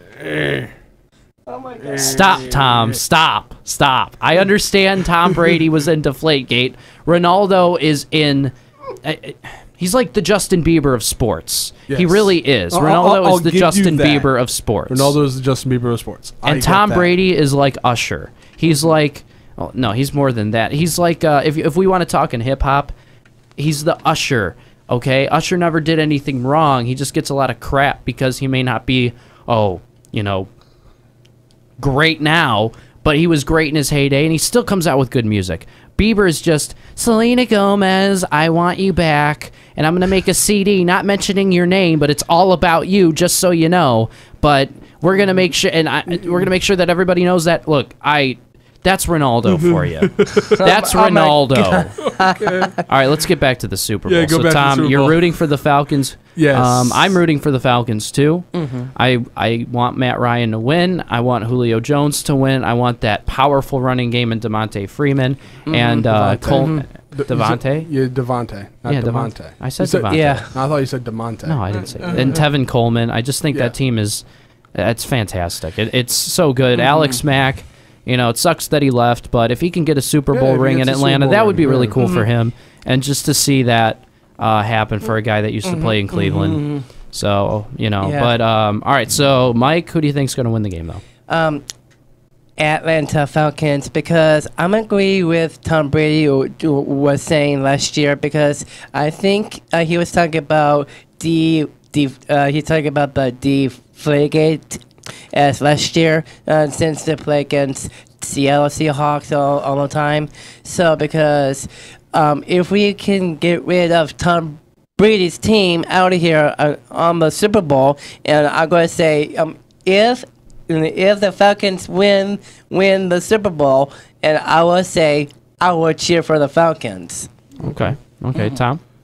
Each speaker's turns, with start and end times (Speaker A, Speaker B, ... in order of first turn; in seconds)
Speaker A: 0.1-0.7, 2.6-3.0, 11.9-14.3, 14.9-17.1, 46.1-46.5, 49.5-50.6, 52.2-52.7, 54.1-55.4, 56.4-57.2, 66.1-72.4, 80.3-82.0, 127.6-127.9
Speaker B: 1.9-15.2, 16.4-22.9, 23.6-30.5, 31.8-52.0, 52.9-67.9, 68.9-70.5, 71.5-74.2, 74.8-91.0, 127.6-128.8
Speaker C: 50.6-52.8, 58.5-58.9, 65.7-66.9, 70.1-70.5, 72.1-72.4, 76.8-77.2, 82.0-82.3, 85.6-86.9, 88.0-88.3, 91.3-91.6, 92.6-127.3